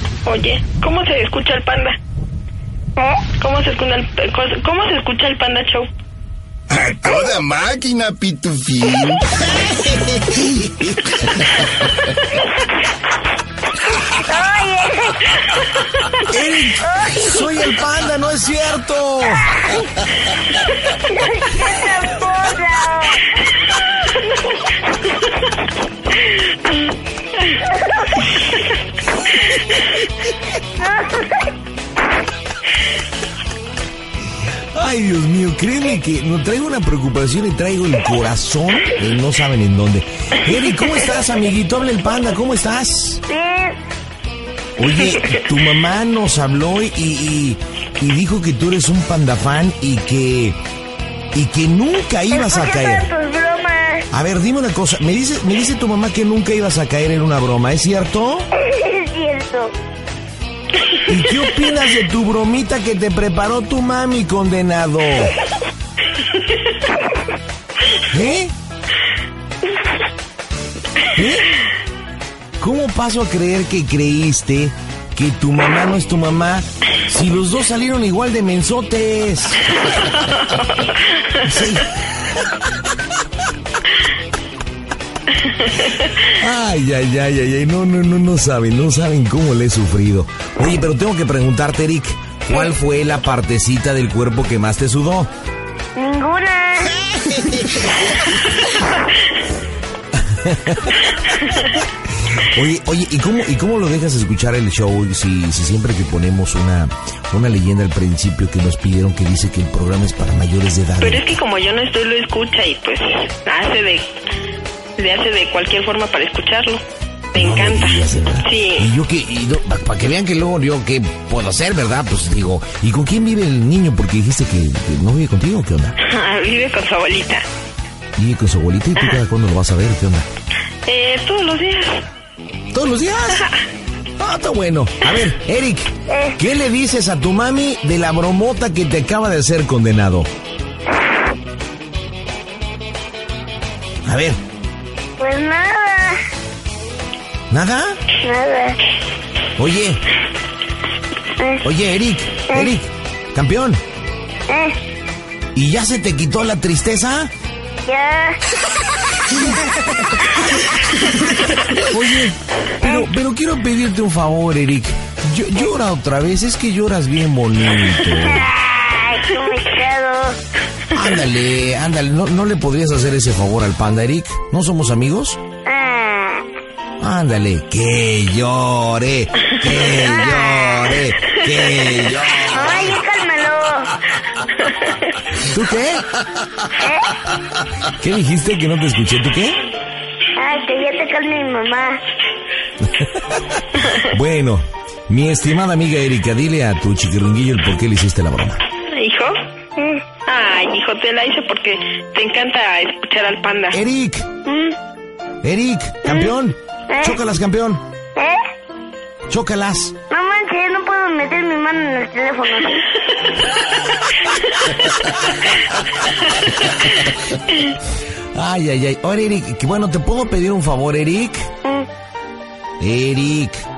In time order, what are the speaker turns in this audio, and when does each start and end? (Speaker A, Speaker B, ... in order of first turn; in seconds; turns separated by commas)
Speaker A: 0.2-2.0, Speaker B: 3.0-3.2, Speaker A: 3.4-5.9, Speaker C: 6.7-9.2, Speaker D: 7.1-9.2, Speaker D: 10.2-10.8, Speaker B: 14.0-15.6, Speaker D: 16.3-19.8, Speaker B: 16.8-17.4, Speaker B: 21.1-23.4, Speaker B: 30.8-31.4, Speaker D: 34.7-43.2, Speaker B: 43.3-43.8, Speaker D: 44.8-50.6, Speaker D: 51.3-53.1, Speaker B: 52.3-54.1, Speaker D: 54.1-58.5, Speaker B: 58.5-59.7, Speaker D: 61.1-65.3, Speaker D: 68.1-68.5, Speaker D: 71.1-71.5, Speaker D: 72.6-79.8, Speaker D: 81.4-82.7, Speaker D: 86.1-95.3, Speaker B: 96.0-97.0, Speaker D: 97.0-98.3, Speaker D: 100.1-101.1, Speaker D: 102.2-111.3, Speaker A: 111.0-114.1, Speaker A: 115.0-116.8, Speaker A: 117.3-118.9, Speaker D: 117.3-126.0, Speaker A: 126.0-127.5, Speaker D: 128.2-130.3, Speaker A: 130.9-132.1, Speaker D: 132.7-133.5, Speaker D: 134.2-140.3, Speaker B: 136.1-136.4, Speaker D: 144.1-144.4, Speaker B: 145.2-146.2, Speaker D: 147.5-148.0, Speaker B: 148.2-148.8, Speaker D: 149.6-150.0, Speaker B: 151.4-151.6, Speaker D: 151.6-153.8, Speaker B: 154.5-154.8, Speaker D: 155.5-157.3, Speaker B: 157.8-158.4, Speaker D: 161.8-168.5, Speaker B: 162.8-163.1, Speaker B: 168.1-170.4, Speaker D: 170.9-175.4, Speaker B: 175.7-176.5, Speaker D: 177.0-183.0, Speaker B: 179.9-181.0, Speaker B: 182.3-183.9, Speaker A: 184.6-185.0, Speaker D: 185.3-186.7, Speaker B: 186.8-187.1, Speaker D: 187.8-189.6, Speaker B: 190.4-192.0, Speaker D: 192.8-198.6, Speaker A: 198.9-199.4, Speaker B: 199.8-200.0, Speaker A: 200.2-203.8, Speaker D: 203.7-204.3, Speaker B: 204.4-204.8, Speaker D: 205.4-207.8, Speaker B: 206.0-206.3, Speaker B: 206.9-207.2, Speaker B: 208.2-208.4, Speaker D: 209.3-209.9, Speaker B: 210.1-212.9, Speaker D: 216.7-217.4, Speaker D: 218.3-221.5, Speaker D: 222.8-223.7